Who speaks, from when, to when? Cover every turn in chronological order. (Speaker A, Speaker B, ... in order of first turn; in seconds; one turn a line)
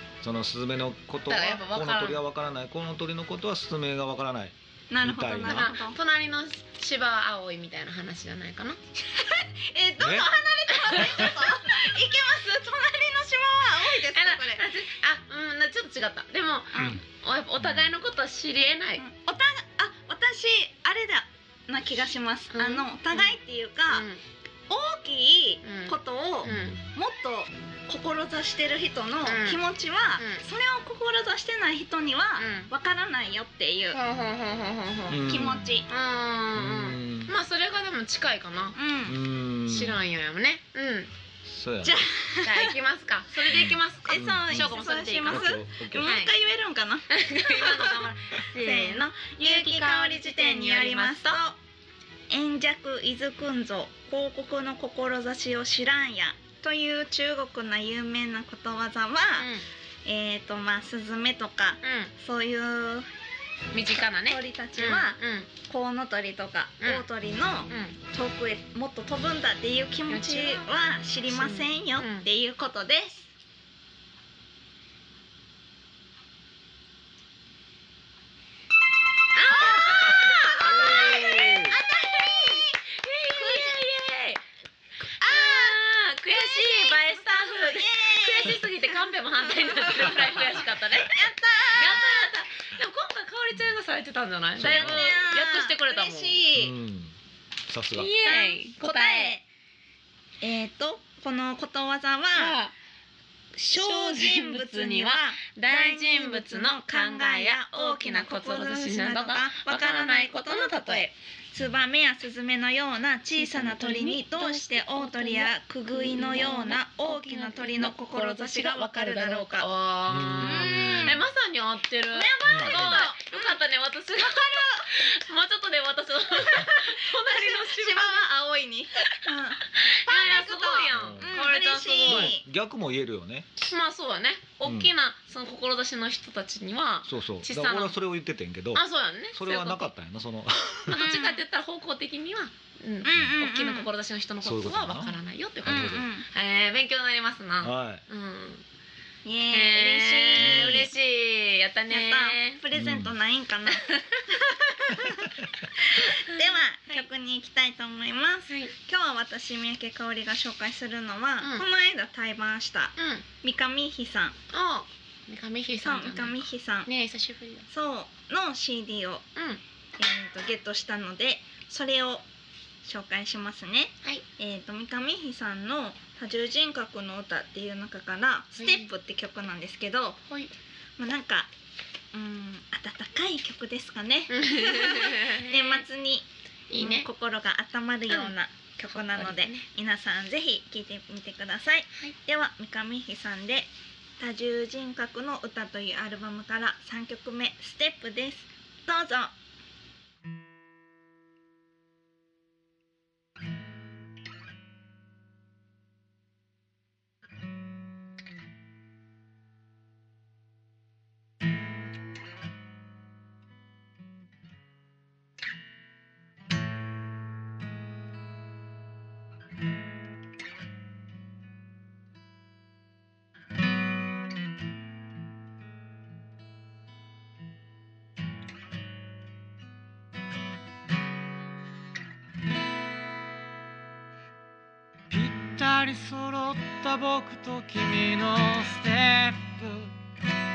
Speaker A: 0.2-5.7
Speaker B: 1.3-2.2
Speaker C: 4.9-6.0
Speaker B: 5.4-8.8
Speaker C: 9.1-14.7
Speaker A: 10.0-10.3
Speaker B: 14.1-19.0
Speaker C: 16.7-17.0
Speaker A: 16.7-17.0
Speaker A: 17.6-17.9
Speaker C: 19.0-24.1
Speaker B: 22.5-23.4
Speaker B: 23.9-24.2
Speaker C: 24.7-34.0
Speaker B: 25.6-26.8
Speaker A: 26.4-26.8
Speaker B: 29.2-29.6
Speaker B: 30.2-30.4
Speaker B: 32.4-32.7
Speaker B: 33.9-38.8
Speaker A: 35.1-35.8
Speaker C: 35.2-35.9
Speaker A: 36.5-37.3
Speaker C: 38.8-39.2
Speaker A: 39.0-40.0
Speaker B: 39.7-41.1
Speaker A: 41.4-42.0
Speaker C: 41.8-42.8
Speaker B: 42.4-46.3
Speaker A: 43.5-46.1
Speaker C: 44.0-48.0
Speaker B: 47.1-51.4
Speaker C: 48.5-51.5
Speaker C: 52.3-59.5
Speaker B: 59.4-59.6
Speaker C: 60.0-63.1
Speaker B: 61.8-62.1
Speaker B: 63.7-65.5
Speaker C: 64.2-73.3
Speaker B: 67.7-68.0
Speaker B: 70.1-70.7
Speaker B: 71.3-72.3
Speaker B: 79.3-84.4
Speaker C: 79.5-82.8
Speaker A: 80.1-81.8
Speaker C: 83.3-83.8
Speaker C: 85.2-85.8
Speaker B: 85.2-96.4
Speaker C: 86.3-92.3
Speaker A: 94.6-95.1
Speaker C: 94.6-96.7
Speaker A: 96.5-97.1
Speaker A: 97.7-98.1
Speaker B: 97.9-99.3
Speaker C: 98.2-99.4
Speaker C: 100.4-102.6
Speaker B: 102.3-102.7
Speaker C: 103.5-119.7
Speaker B: 103.7-111.1
Speaker B: 113.3-128.2
Speaker A: 120.1-121.2
Speaker C: 120.4-121.2
Speaker C: 122.1-124.9
Speaker A: 122.5-123.0
Speaker C: 126.4-132.4
Speaker B: 129.7-132.3
Speaker A: 130.9-131.3
Speaker A: 132.1-133.5
Speaker B: 133.7-138.0
Speaker A: 134.6-134.9
Speaker A: 137.0-141.1
Speaker B: 138.7-139.9
Speaker B: 140.9-148.6
Speaker C: 140.9-141.4
Speaker C: 143.0-143.9
Speaker A: 144.4-146.1
Speaker C: 145.7-146.2
Speaker A: 147.6-148.0
Speaker C: 149.2-150.9
Speaker B: 149.5-152.6
Speaker A: 150.4-150.9
Speaker C: 151.9-164.3
Speaker A: 152.7-153.1
Speaker B: 153.8-154.4
Speaker B: 156.0-156.3
Speaker B: 158.5-158.7
Speaker B: 163.0-163.2
Speaker B: 164.5-167.7
Speaker C: 165.8-166.9
Speaker C: 167.7-169.2
Speaker B: 169.3-169.6
Speaker C: 170.0-172.2
Speaker C: 172.8-180.2
Speaker B: 178.6-178.9
Speaker C: 181.0-181.5
Speaker C: 182.1-186.2
Speaker B: 184.3-185.8
Speaker B: 186.7-187.1
Speaker C: 186.8-193.7
Speaker B: 188.9-189.6
Speaker C: 194.2-199.3
Speaker D: 235.1-239.9